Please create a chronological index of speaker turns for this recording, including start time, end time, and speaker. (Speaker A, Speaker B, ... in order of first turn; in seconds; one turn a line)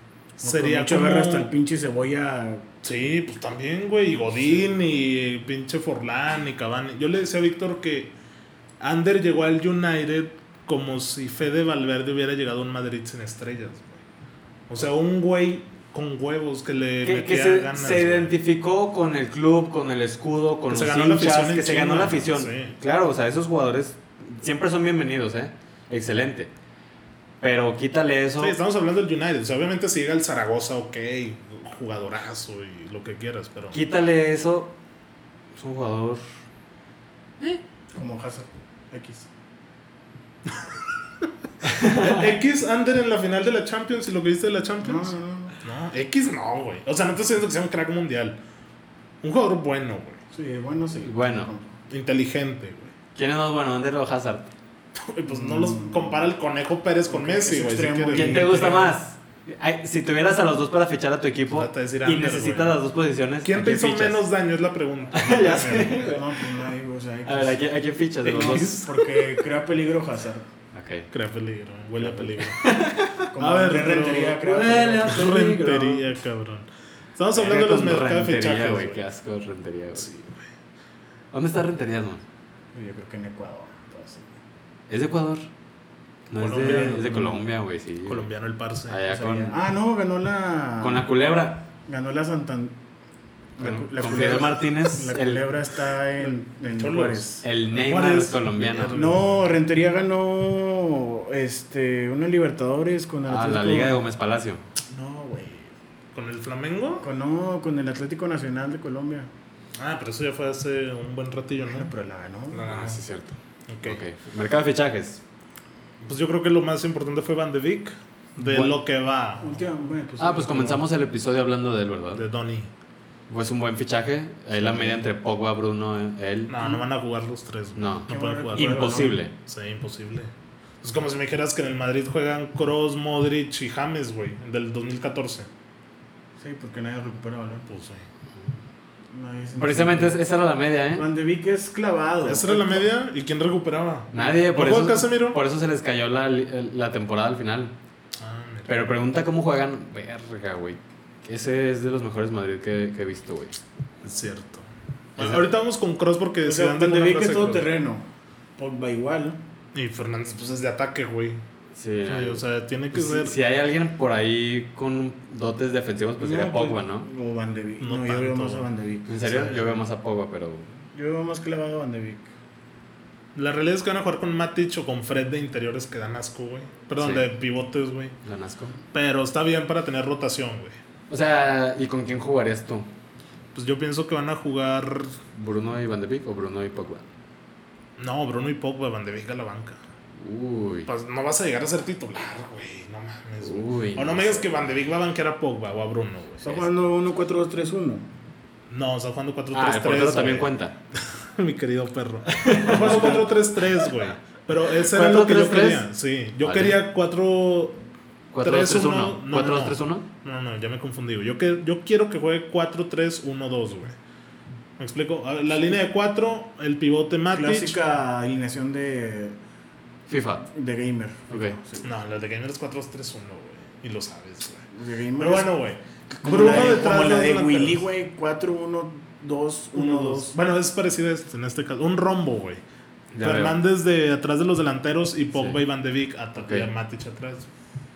Speaker A: 0.4-1.5
Speaker B: 0.4-2.7
Speaker A: 2.8-8.1
Speaker A: 8.8-14.0
Speaker A: 14.7-18.3
Speaker C: 17.0-26.5
Speaker A: 20.7-22.8
Speaker C: 27.4-28.6
Speaker A: 28.4-33.8
Speaker C: 33.7-34.7
Speaker C: 35.5-36.2
Speaker B: 37.9-39.3
Speaker A: 41.6-48.4
Speaker C: 41.8-42.2
Speaker B: 44.8-45.5
Speaker A: 49.2-50.2
Speaker B: 50.3-51.7
Speaker C: 51.0-51.5
Speaker A: 51.9-52.9
Speaker C: 53.1-54.5
Speaker A: 55.0-58.6
Speaker B: 55.2-56.2
Speaker B: 57.1-59.0
Speaker C: 58.1-64.2
Speaker A: 61.5-62.8
Speaker A: 63.4-66.0
Speaker C: 65.1-66.3
Speaker B: 65.7-67.6
Speaker C: 67.2-68.8
Speaker A: 68.2-68.9
Speaker B: 68.3-70.5
Speaker C: 70.7-71.1
Speaker A: 71.1-72.7
Speaker C: 72.4-73.2
Speaker B: 73.3-75.2
Speaker A: 73.3-74.4
Speaker C: 74.4-76.0
Speaker A: 75.0-79.0
Speaker C: 77.3-80.1
Speaker A: 80.0-80.4
Speaker C: 81.3-82.2
Speaker B: 82.7-84.4
Speaker C: 84.9-85.5
Speaker C: 86.3-88.3
Speaker A: 86.4-87.0
Speaker B: 86.4-87.4
Speaker A: 88.0-89.0
Speaker C: 88.9-89.6
Speaker B: 89.1-91.1
Speaker C: 90.8-91.7
Speaker B: 91.8-92.8
Speaker B: 93.6-97.4
Speaker C: 93.6-95.5
Speaker A: 96.7-99.5
Speaker C: 97.4-99.0
Speaker B: 98.9-104.0
Speaker C: 103.2-104.6
Speaker B: 104.9-105.7
Speaker A: 106.1-107.1
Speaker B: 107.0-109.3
Speaker A: 109.8-111.9
Speaker B: 111.7-113.0
Speaker A: 112.5-113.0
Speaker C: 112.6-115.2
Speaker A: 113.7-114.0
Speaker A: 116.0-119.6
Speaker B: 119.4-120.8
Speaker C: 120.2-122.2
Speaker A: 122.1-122.7
Speaker C: 123.3-126.5
Speaker A: 126.5-130.3
Speaker C: 127.8-129.3
Speaker B: 128.1-129.2
Speaker A: 130.8-135.5
Speaker B: 136.4-137.6
Speaker A: 137.7-138.1
Speaker B: 139.1-140.2
Speaker C: 139.6-141.1
Speaker B: 140.9-142.9
Speaker A: 142.2-145.4
Speaker C: 144.1-147.7
Speaker A: 148.2-148.8
Speaker C: 148.7-153.6
Speaker A: 154.0-157.7
Speaker C: 155.2-155.4
Speaker B: 156.4-158.1
Speaker B: 158.6-159.4
Speaker A: 159.7-161.4
Speaker C: 161.7-167.1
Speaker A: 162.0-163.3
Speaker B: 166.2-169.8
Speaker A: 167.8-168.7
Speaker C: 169.1-170.7
Speaker B: 170.9-172.3
Speaker A: 173.3-178.1
Speaker C: 177.0-177.2
Speaker C: 178.2-178.8
Speaker A: 178.9-180.8
Speaker C: 181.1-182.9
Speaker A: 183.5-185.2
Speaker C: 185.3-187.0
Speaker A: 188.0-189.8
Speaker C: 190.2-190.9
Speaker A: 190.8-196.4
Speaker C: 193.4-194.5
Speaker B: 196.4-198.1
Speaker A: 198.7-207.8
Speaker C: 199.5-200.8
Speaker C: 202.3-203.3
Speaker C: 204.8-205.8
Speaker C: 206.4-206.8
Speaker C: 208.3-210.1
Speaker A: 208.4-213.9
Speaker A: 214.8-217.8
Speaker B: 217.3-219.4
Speaker C: 220.1-220.4
Speaker B: 220.4-221.9
Speaker C: 221.3-221.6
Speaker A: 221.8-224.6
Speaker B: 224.7-225.5
Speaker A: 225.2-227.8
Speaker B: 226.1-230.3
Speaker A: 229.7-232.6
Speaker C: 233.1-233.6
Speaker A: 233.2-237.5
Speaker C: 235.3-235.6
Speaker C: 236.4-236.7